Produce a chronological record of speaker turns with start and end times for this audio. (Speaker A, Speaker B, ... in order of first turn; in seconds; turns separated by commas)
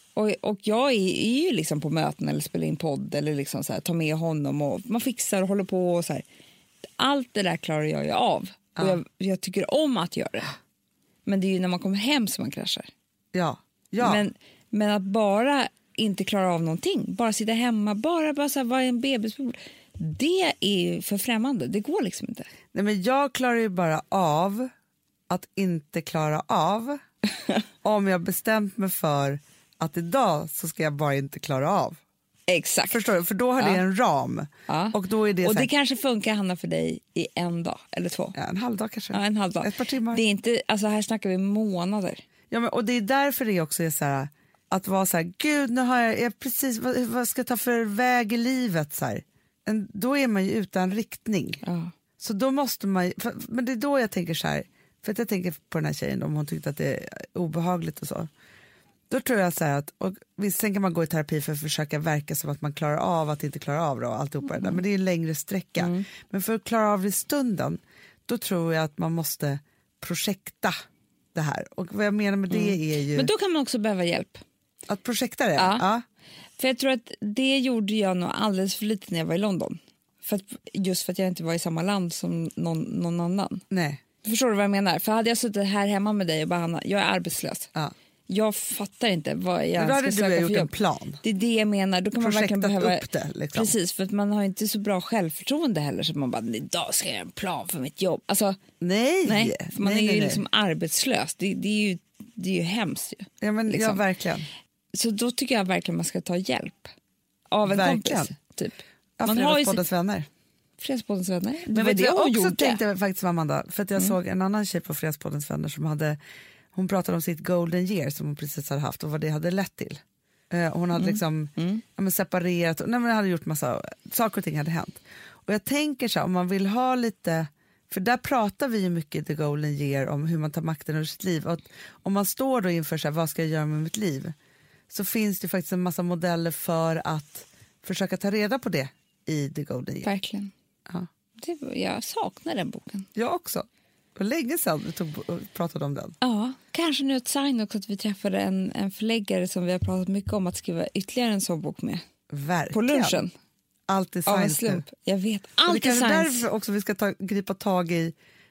Speaker A: 0.1-6.2, Speaker A: 7.0-10.5, Speaker A: 11.2-12.9, Speaker B: 13.3-14.2, Speaker A: 14.0-22.5, Speaker B: 22.7-24.7, Speaker B: 25.3-27.0, Speaker B: 27.8-32.0, Speaker A: 32.5-33.0, Speaker B: 32.9-35.7, Speaker A: 34.7-38.4, Speaker B: 38.3-40.2, Speaker A: 39.1-42.2, Speaker B: 42.5-51.6, Speaker A: 51.6-51.9, Speaker B: 52.2-58.3, Speaker B: 59.1-70.8, Speaker A: 65.8-66.0, Speaker B: 71.3-73.3, Speaker A: 72.5-74.4, Speaker B: 74.9-76.0, Speaker A: 75.6-75.8, Speaker A: 76.6-83.6, Speaker B: 83.7-84.0, Speaker A: 84.2-87.7, Speaker A: 88.3-90.7, Speaker B: 89.8-91.2, Speaker A: 91.2-98.6, Speaker B: 92.2-93.7, Speaker B: 98.8-100.4, Speaker A: 99.2-104.0, Speaker B: 103.4-104.5, Speaker A: 104.9-106.9, Speaker A: 107.5-109.8, Speaker B: 107.6-108.3, Speaker B: 109.2-110.3, Speaker A: 110.8-112.8, Speaker B: 111.7-116.2, Speaker B: 116.7-134.3, Speaker A: 120.9-121.8, Speaker B: 134.9-140.1, Speaker A: 140.0-140.5, Speaker A: 141.4-143.1, Speaker B: 143.2-146.2, Speaker A: 146.2-152.0, Speaker B: 152.3-153.2, Speaker A: 152.7-153.3, Speaker B: 153.9-154.8, Speaker A: 154.2-156.4, Speaker B: 155.7-158.1